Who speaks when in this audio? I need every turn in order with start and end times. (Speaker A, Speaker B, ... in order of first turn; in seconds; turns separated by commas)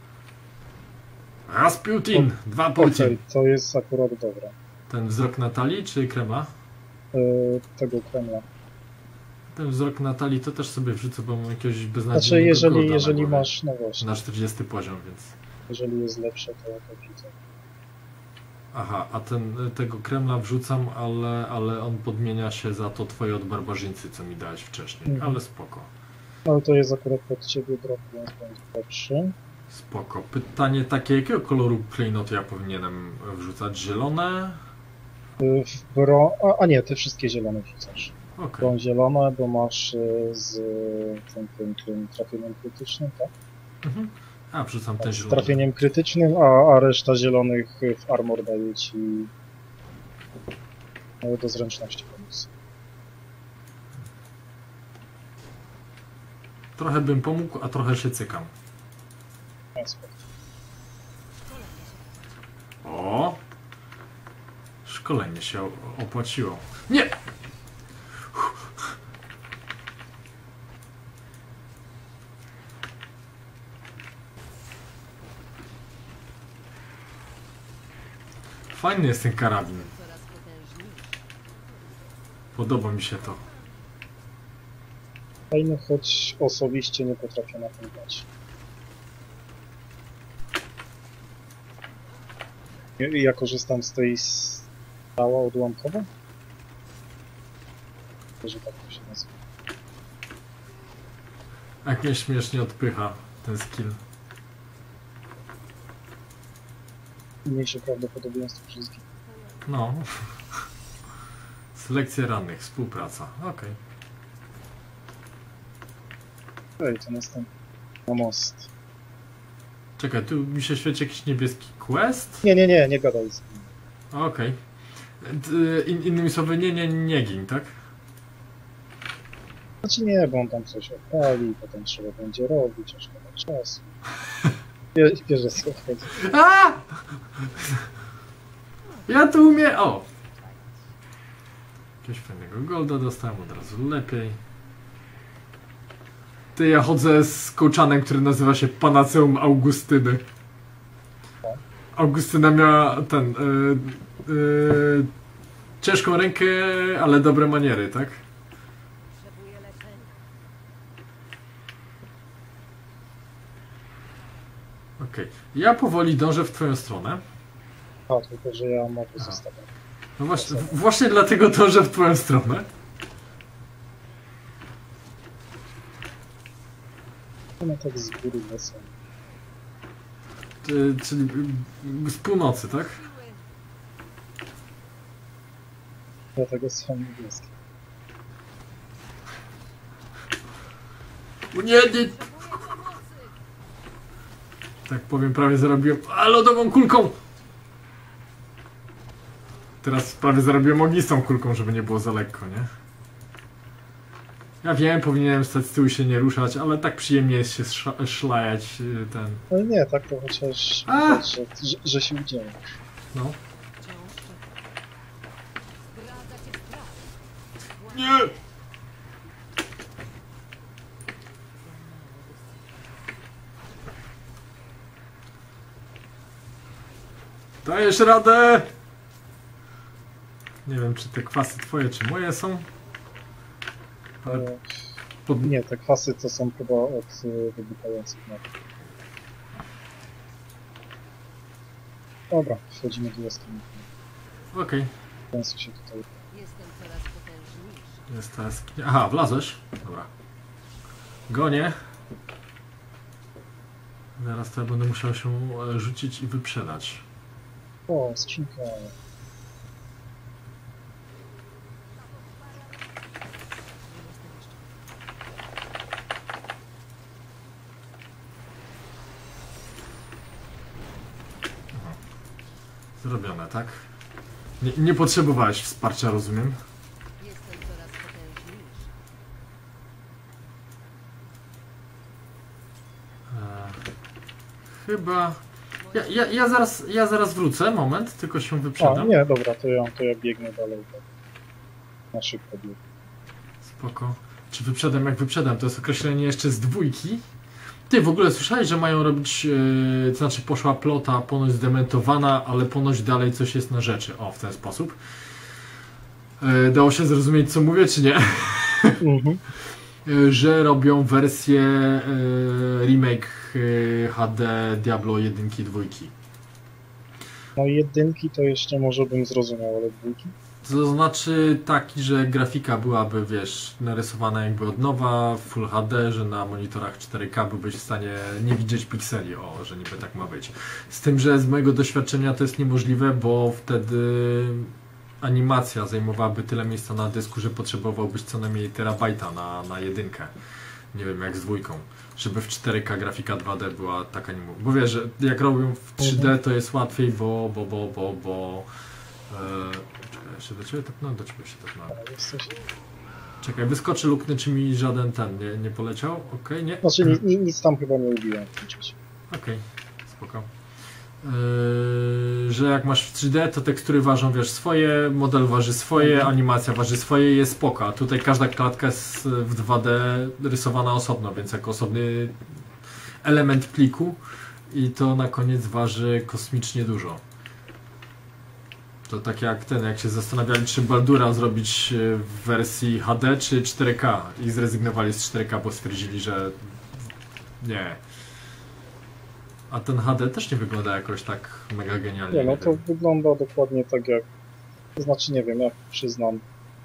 Speaker A: 1.5-3.1, Speaker B: 2.1-4.5, Speaker A: 4.9-6.5, Speaker B: 7.1-8.4, Speaker A: 9.5-15.3, Speaker B: 12.1-14.1, Speaker B: 15.7-17.4, Speaker A: 18.7-25.9, Speaker B: 25.1-25.4, Speaker B: 26.4-29.3, Speaker A: 29.7-34.6, Speaker B: 35.4-43.3, Speaker A: 38.4-38.7, Speaker A: 43.8-45.7, Speaker B: 45.0-49.3, Speaker B: 51.2-52.5, Speaker A: 56.8-58.5, Speaker B: 59.8-60.2, Speaker C: 61.3-62.4, Speaker A: 62.8-63.4, Speaker A: 64.8-67.2, Speaker A: 68.2-68.9, Speaker A: 78.7-79.9, Speaker C: 79.4-82.1, Speaker A: 82.5-83.4, Speaker C: 83.2-83.7, Speaker B: 85.5-88.3, Speaker B: 93.0-96.1, Speaker B: 98.4-99.4, Speaker A: 101.8-104.0, Speaker B: 107.4-109.0, Speaker A: 109.7-110.7, Speaker A: 111.7-113.8, Speaker B: 116.8-117.5, Speaker B: 118.1-118.7, Speaker A: 120.0-122.4, Speaker B: 122.4-123.7, Speaker A: 124.1-124.6, Speaker A: 125.2-127.7, Speaker B: 129.8-133.9, Speaker B: 134.9-136.2, Speaker A: 136.1-137.9, Speaker A: 139.1-140.1, Speaker A: 142.0-144.4, Speaker A: 146.6-150.2, Speaker A: 151.9-155.1, Speaker A: 155.8-158.2, Speaker C: 159.0-160.4, Speaker A: 165.0-167.2, Speaker B: 168.1-169.7, Speaker A: 170.2-172.7, Speaker B: 170.4-170.7, Speaker B: 177.6-178.9, Speaker A: 180.6-183.0, Speaker C: 182.9-183.2, Speaker B: 186.3-187.5, Speaker A: 191.5-192.8, Speaker C: 191.7-193.3, Speaker A: 194.8-197.2, Speaker A: 199.8-202.7, Speaker A: 204.6-209.4, Speaker B: 209.5-212.6, Speaker A: 210.9-211.2, Speaker A: 213.1-213.4, Speaker C: 213.8-214.6, Speaker C: 215.9-217.2, Speaker C: 217.8-218.3, Speaker A: 217.9-218.3, Speaker C: 221.5-223.2, Speaker A: 227.6-228.7, Speaker A: 230.6-232.7, Speaker B: 234.2-234.6, Speaker A: 235.3-235.5, Speaker B: 235.4-238.5, Speaker B: 242.3-243.8, Speaker A: 244.5-244.9, Speaker B: 245.3-246.0, Speaker C: 246.3-248.1, Speaker A: 248.1-250.1, Speaker A: 251.3-251.8, Speaker A: 254.2-257.1, Speaker B: 257.9-258.9, Speaker C: 263.8-264.7, Speaker A: 271.7-272.0, Speaker A: 273.0-273.9, Speaker A: 274.6-276.6, Speaker C: 277.2-278.9, Speaker A: 283.3-283.8, Speaker A: 284.8-285.4, Speaker C: 285.8-286.2, Speaker A: 285.9-289.1, Speaker B: 288.8-291.1, Speaker B: 292.1-292.8, Speaker A: 293.6-297.2, Speaker A: 297.9-305.0, Speaker A: 306.4-309.0, Speaker B: 309.0-309.4, Speaker A: 310.0-316.1, Speaker B: 317.6-320.3, Speaker A: 320.6-340.3, Speaker A: 340.9-348.7, Speaker B: 346.0-346.3, Speaker A: 349.3-352.0, Speaker B: 351.9-352.5, Speaker A: 353.4-357.2, Speaker B: 356.8-358.9, Speaker A: 359.3-360.5, Speaker A: 361.2-372.5, Speaker B: 366.0-366.3, Speaker A: 373.2-377.2, Speaker A: 379.1-387.1, Speaker A: 387.6-388.0, Speaker A: 389.7-392.8, Speaker B: 392.3-394.2, Speaker B: 395.0-396.4